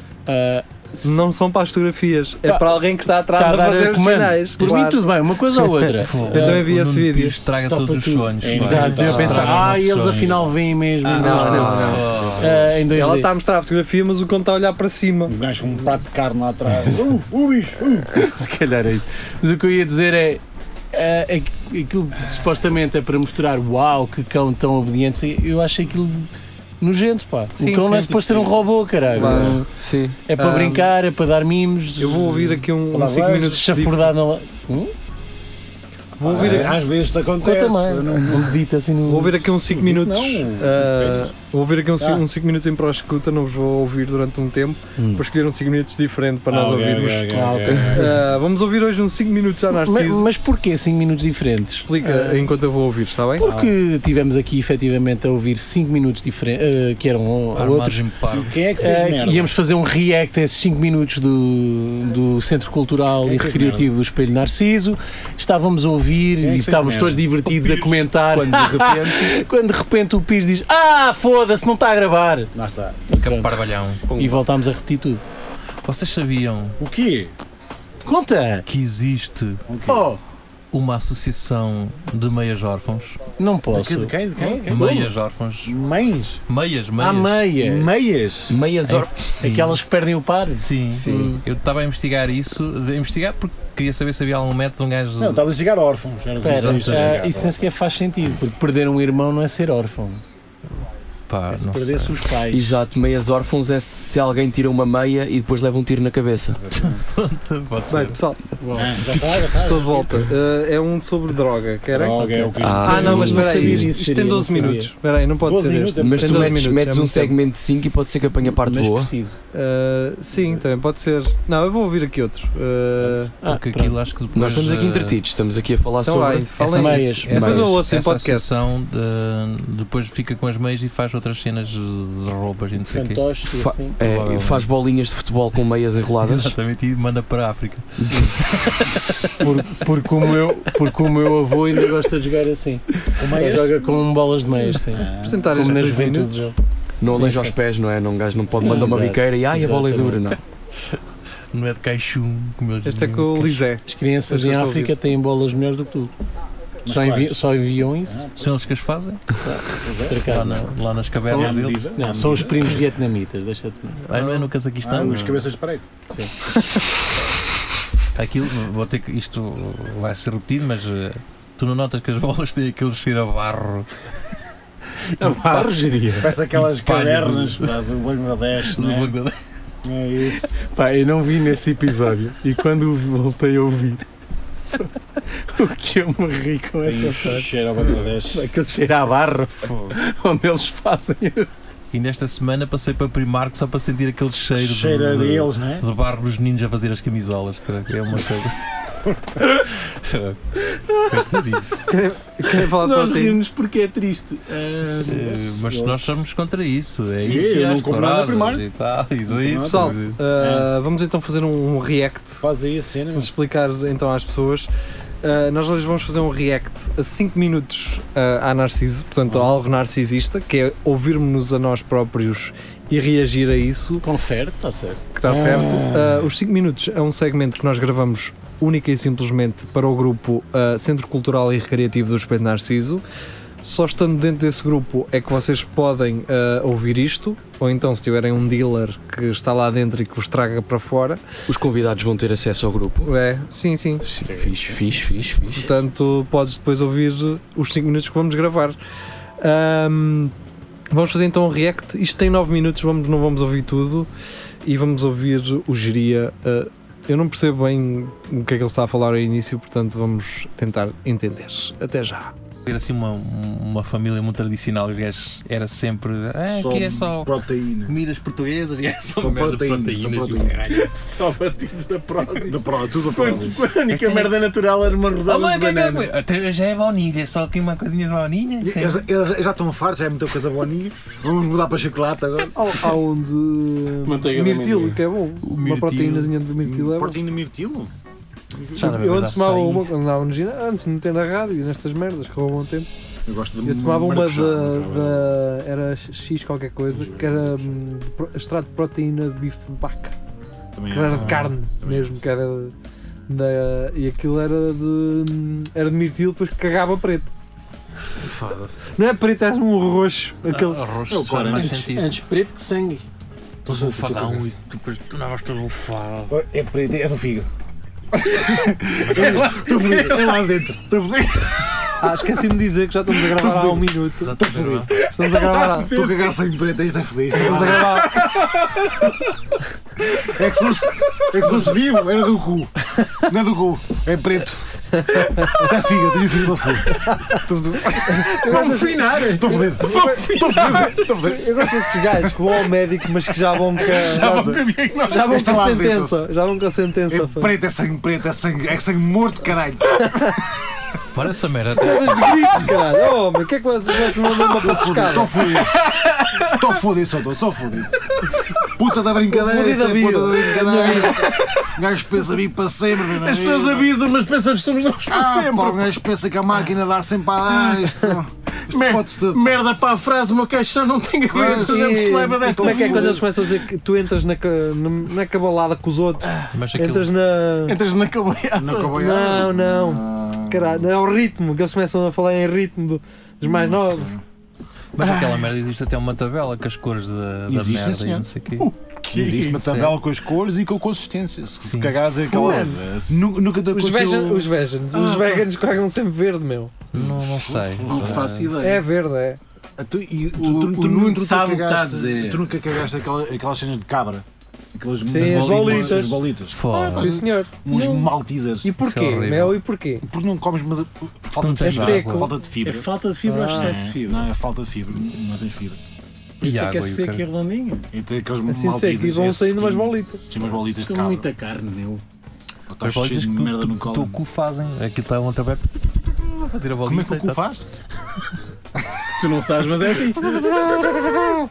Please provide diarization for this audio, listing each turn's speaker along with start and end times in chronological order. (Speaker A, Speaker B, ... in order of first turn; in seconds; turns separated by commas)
Speaker A: 0.3-1.2, Speaker B: 1.0-7.4, Speaker A: 2.5-6.7, Speaker C: 6.0-10.4, Speaker A: 7.7-13.3, Speaker D: 8.4-10.4, Speaker B: 9.1-9.5, Speaker D: 11.0-12.4, Speaker B: 11.2-12.1, Speaker E: 11.2-12.1, Speaker C: 11.8-12.7, Speaker B: 12.9-15.3, Speaker D: 15.3-18.2, Speaker A: 18.1-29.7, Speaker B: 27.6-28.6, Speaker B: 29.1-29.6, Speaker E: 29.2-30.2, Speaker A: 30.3-32.7, Speaker B: 30.4-30.9, Speaker B: 32.0-34.1, Speaker D: 32.9-33.6, Speaker A: 33.4-34.9, Speaker B: 36.2-36.8, Speaker D: 36.2-38.6, Speaker A: 37.4-39.5, Speaker B: 39.1-47.3, Speaker D: 39.7-41.3, Speaker D: 42.0-42.2, Speaker A: 45.0-45.2, Speaker D: 46.5-48.2, Speaker A: 47.3-48.1, Speaker E: 47.7-48.0, Speaker B: 47.9-50.3, Speaker A: 49.7-52.5, Speaker B: 51.9-53.5, Speaker A: 53.4-58.0, Speaker D: 53.4-53.7, Speaker C: 57.6-58.5, Speaker D: 58.3-59.5, Speaker A: 58.8-72.5, Speaker D: 63.2-63.9, Speaker D: 66.4-68.0, Speaker E: 68.3-69.4, Speaker D: 72.5-73.1, Speaker A: 73.1-75.2, Speaker C: 73.1-74.0, Speaker E: 74.1-74.4, Speaker C: 75.8-76.8, Speaker D: 76.8-77.3, Speaker A: 78.0-78.7, Speaker C: 78.7-79.6, Speaker D: 79.7-80.1, Speaker A: 79.9-80.2, Speaker C: 80.7-83.2, Speaker A: 83.4-85.0, Speaker D: 83.7-86.4, Speaker C: 84.7-85.8, Speaker C: 86.5-87.4, Speaker A: 87.0-87.9, Speaker D: 87.6-88.6, Speaker E: 88.5-89.3, Speaker C: 88.9-89.8, Speaker A: 89.3-91.4, Speaker C: 90.6-95.4, Speaker E: 90.9-91.4, Speaker D: 95.2-97.6, Speaker A: 96.4-100.2, Speaker C: 96.5-97.2, Speaker C: 101.3-102.2, Speaker A: 101.5-102.8, Speaker E: 102.5-106.6, Speaker D: 106.6-107.0, Speaker C: 106.7-108.2, Speaker B: 107.9-108.4, Speaker A: 108.6-109.1, Speaker D: 108.8-110.3, Speaker B: 109.5-112.2, Speaker D: 111.9-113.5, Speaker A: 112.2-114.9, Speaker E: 112.6-113.9, Speaker B: 112.8-117.4, Speaker D: 115.4-116.7, Speaker E: 116.0-119.1, Speaker A: 118.6-119.4, Speaker B: 119.5-123.3, Speaker A: 123.4-124.0, Speaker C: 123.5-125.2, Speaker E: 124.3-126.8, Speaker B: 126.0-128.5, Speaker C: 126.6-133.4, Speaker A: 126.7-127.7, Speaker E: 127.4-127.7, Speaker A: 132.8-134.0, Speaker E: 133.5-136.6, Speaker C: 134.0-134.7, Speaker C: 136.2-139.6, Speaker E: 138.0-138.3, Speaker A: 139.4-146.6, Speaker D: 143.2-143.8, Speaker D: 144.9-145.5, Speaker B: 145.2-146.5, Speaker E: 147.0-150.4, Speaker A: 147.2-147.6, Speaker A: 148.5-150.3, Speaker C: 151.5-153.7, Speaker B: 152.8-154.9, Speaker A: 153.9-156.1, Speaker D: 156.8-157.4, Speaker A: 156.9-158.3, Speaker D: 158.1-158.6, Speaker C: 158.4-159.2, Speaker A: 159.4-164.0, Speaker D: 159.8-160.6, Speaker C: 160.3-161.9, Speaker D: 161.2-162.8, Speaker C: 164.1-165.2, Speaker B: 164.1-164.5, Speaker D: 164.8-165.8, Speaker A: 165.0-165.4, Speaker C: 168.2-173.9, Speaker A: 175.2-176.3, Speaker C: 175.2-175.7, Speaker D: 176.2-179.1, Speaker C: 176.6-177.7, Speaker C: 178.7-179.4, Speaker D: 179.8-180.5, Speaker A: 180.6-184.0, Speaker A: 184.7-191.5, Speaker D: 186.8-188.5, Speaker C: 191.9-198.6, Speaker D: 194.6-195.8, Speaker C: 199.4-200.4, Speaker A: 200.7-201.4, Speaker C: 201.1-201.8, Speaker B: 201.9-203.4, Speaker A: 202.5-205.4, Speaker C: 205.0-210.2, Speaker D: 205.7-206.0, Speaker D: 207.2-208.7, Speaker D: 209.3-210.7, Speaker B: 209.6-212.4, Speaker D: 212.4-213.3, Speaker B: 213.2-214.7, Speaker B: 215.2-224.1, Speaker A: 224.0-225.1, Speaker B: 225.2-233.0, Speaker D: 225.3-226.2, Speaker B: 233.6-241.2, Speaker E: 241.5-243.1, Speaker B: 243.0-244.1, Speaker E: 244.0-245.7, Speaker D: 244.3-244.5, Speaker B: 245.6-248.8, Speaker B: 249.4-250.3, Speaker B: 250.9-254.1, Speaker B: 254.7-262.3, Speaker C: 262.7-267.3, Speaker D: 266.5-268.0, Speaker C: 267.9-270.7, Speaker D: 269.1-270.9, Speaker A: 270.7-276.1, Speaker D: 272.4-273.6, Speaker C: 273.9-274.3, Speaker C: 275.2-279.0, Speaker D: 278.6-282.7, Speaker B: 282.6-287.2, Speaker A: 284.1-285.0, Speaker C: 285.4-286.4, Speaker D: 286.6-287.9, Speaker C: 288.8-289.9, Speaker B: 288.8-292.9, Speaker D: 293.3-295.3, Speaker B: 293.6-300.1, Speaker D: 296.9-297.7, Speaker D: 300.8-302.2, Speaker B: 300.9-302.7, Speaker C: 301.1-301.5, Speaker B: 303.3-307.3, Speaker A: 308.2-308.7, Speaker B: 309.0-310.9, Speaker C: 310.5-312.2, Speaker D: 311.1-311.9, Speaker A: 311.5-313.0, Speaker C: 313.7-316.3, Speaker D: 313.7-314.6, Speaker D: 316.3-317.5, Speaker D: 318.1-322.1, Speaker C: 319.0-319.6, Speaker A: 319.4-320.1, Speaker B: 322.0-324.4, Speaker D: 323.1-328.3, Speaker C: 324.2-324.9, Speaker B: 325.0-326.0, Speaker B: 327.4-328.2, Speaker A: 328.4-328.8, Speaker D: 330.1-338.7, Speaker B: 335.1-335.6, Speaker B: 337.1-337.4, Speaker B: 338.1-344.4, Speaker A: 338.3-341.0, Speaker D: 339.2-342.4, Speaker D: 343.8-346.3, Speaker A: 343.8-345.3, Speaker B: 345.1-347.5, Speaker D: 347.1-350.3, Speaker B: 350.0-350.4, Speaker C: 351.1-352.4, Speaker B: 351.8-355.4, Speaker D: 354.6-355.8, Speaker A: 355.9-356.5, Speaker D: 356.5-358.0, Speaker D: 358.6-363.9, Speaker B: 359.3-361.2, Speaker A: 360.8-361.7, Speaker A: 363.1-365.9, Speaker D: 365.1-369.6, Speaker A: 368.7-373.3, Speaker D: 371.3-373.3, Speaker B: 371.4-377.8, Speaker C: 376.5-377.1, Speaker A: 377.6-379.0, Speaker D: 378.6-380.9, Speaker B: 378.9-384.1, Speaker D: 383.4-384.2, Speaker C: 385.0-388.7, Speaker A: 385.0-385.4, Speaker D: 387.5-388.3, Speaker A: 388.6-389.6, Speaker D: 389.0-394.5, Speaker C: 389.5-390.0, Speaker C: 391.6-392.0, Speaker B: 392.3-392.8, Speaker A: 392.6-393.1, Speaker B: 393.7-396.8, Speaker A: 394.9-395.4, Speaker C: 396.9-398.6, Speaker D: 396.9-398.3, Speaker A: 397.9-398.8, Speaker B: 398.6-399.4, Speaker D: 399.8-408.8, Speaker A: 400.4-402.4, Speaker B: 405.0-406.2, Speaker C: 405.1-407.2, Speaker B: 406.9-408.1, Speaker B: 408.6-410.1, Speaker C: 408.8-409.6, Speaker D: 410.0-412.9, Speaker C: 411.4-412.3, Speaker B: 411.6-412.3, Speaker A: 412.6-414.3, Speaker B: 413.3-413.8, Speaker D: 413.5-415.8, Speaker A: 416.4-417.9, Speaker C: 416.4-417.3, Speaker D: 417.9-421.3, Speaker B: 418.5-420.2, Speaker A: 420.8-422.0, Speaker D: 422.7-424.2, Speaker C: 422.8-427.4, Speaker D: 426.9-427.6, Speaker A: 429.2-430.4